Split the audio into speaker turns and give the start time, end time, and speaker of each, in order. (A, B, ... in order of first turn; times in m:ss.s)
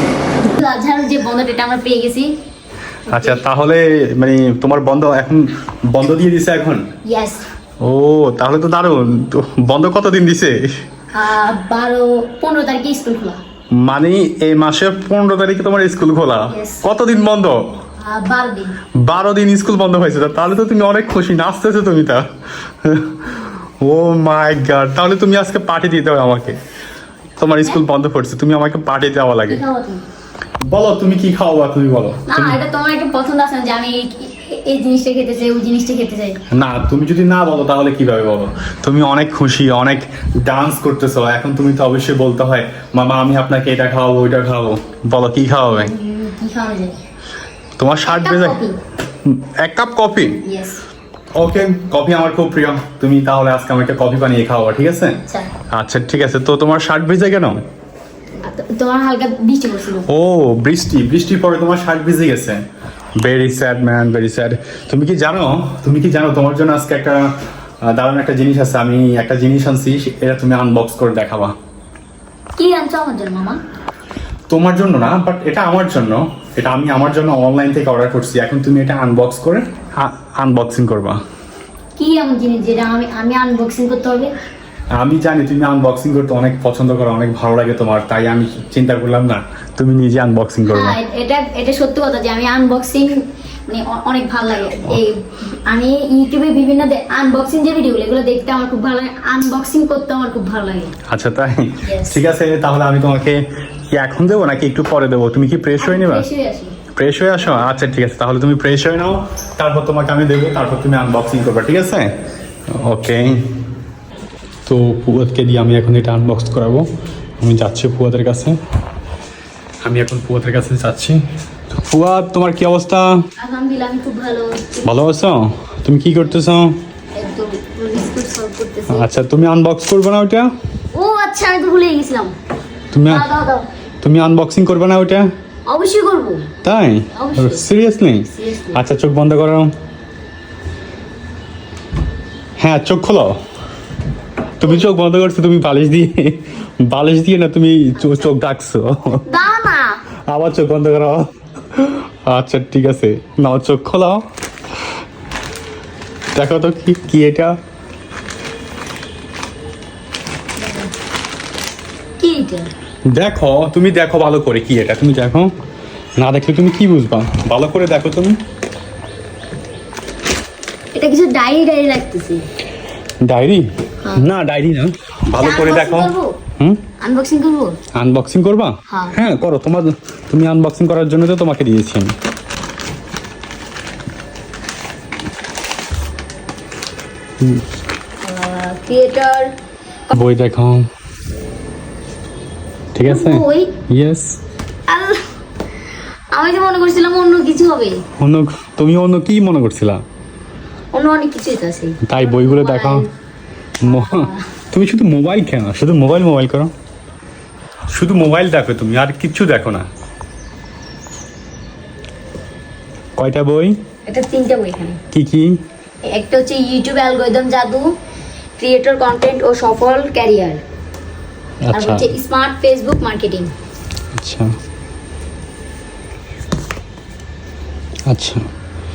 0:00.4-0:02.3 A
0:03.1-0:03.4 A
0:03.1-0:06.8 B
0:07.1-0:07.4 A
0:07.8-0:10.7 B
0:11.1-0:13.4 A
0:13.8-0:17.7 B
0:16.5-0:16.8 A
0:18.0-0:18.8 A
0:19.0-0:22.3 B
0:22.8-0:26.6 B
0:27.4-0:29.6 B
0:29.5-0:30.0 A
0:30.6-0:32.6 B
0:32.3-0:36.4 A
0:36.5-0:45.9 B
0:45.6-0:47.0 A
0:47.8-0:48.6 B
0:48.1-0:48.8 A
0:49.2-0:50.4 B
0:50.4-0:50.8 A
0:51.4-0:55.2 B
0:55.7-0:57.6 B
0:58.4-1:00.1 A
1:00.1-1:02.6 B
1:03.2-1:11.6 B
1:12.6-1:13.6 A
1:14.5-1:21.2 B
1:22.0-1:24.3 A
1:25.0-1:31.0 B
1:30.7-1:40.9 A
1:41.1-1:46.2 B
1:41.8-1:42.2 A
1:45.8-1:46.7 A
1:47.0-1:52.1 B
1:52.7-1:53.4 B
1:54.7-1:56.9 B
1:57.4-1:58.6 B
1:59.8-2:03.2 B
2:03.4-2:04.9 A
2:04.8-2:06.8 B
2:07.2-2:09.1 A
2:08.9-2:10.5 B
2:10.9-2:12.3 A
2:12.9-2:13.3 B
2:13.1-2:13.7 A
2:14.0-2:15.3 B
2:15.7-2:16.5 A
2:16.6-2:19.7 B
2:17.2-2:17.7 A
2:18.3-2:18.8 A
2:22.6-2:23.4 B
2:24.6-2:29.3 B
2:29.2-2:30.0 A
2:30.3-2:34.2 B
2:36.4-2:37.6 B
2:40.6-2:40.9 A
2:42.2-2:42.7 A
2:43.1-2:45.5 B
2:46.2-2:48.4 B
2:50.9-2:52.4 A
2:53.2-2:56.8 B
2:55.4-2:56.4 A
2:57.0-2:57.8 A
2:57.9-3:02.1 B
2:58.9-2:59.2 A
3:08.2-3:09.5 A
3:10.1-3:10.9 B
3:13.0-3:14.4 B
3:13.0-3:13.7 A
3:14.9-3:15.2 A
3:16.3-3:18.0 A
3:18.2-3:20.0 B
3:20.9-3:23.1 A
3:22.0-3:23.1 B
3:23.8-3:26.7 B
3:23.8-3:24.4 A
3:27.9-3:29.9 B
3:33.2-3:33.8 B
3:34.1-3:35.0 A
3:35.1-3:35.6 B
3:36.1-3:37.9 A
3:38.6-3:40.6 A
3:41.6-3:42.0 B
3:41.7-3:43.5 A
3:44.2-3:44.5 B
3:48.1-3:48.4 B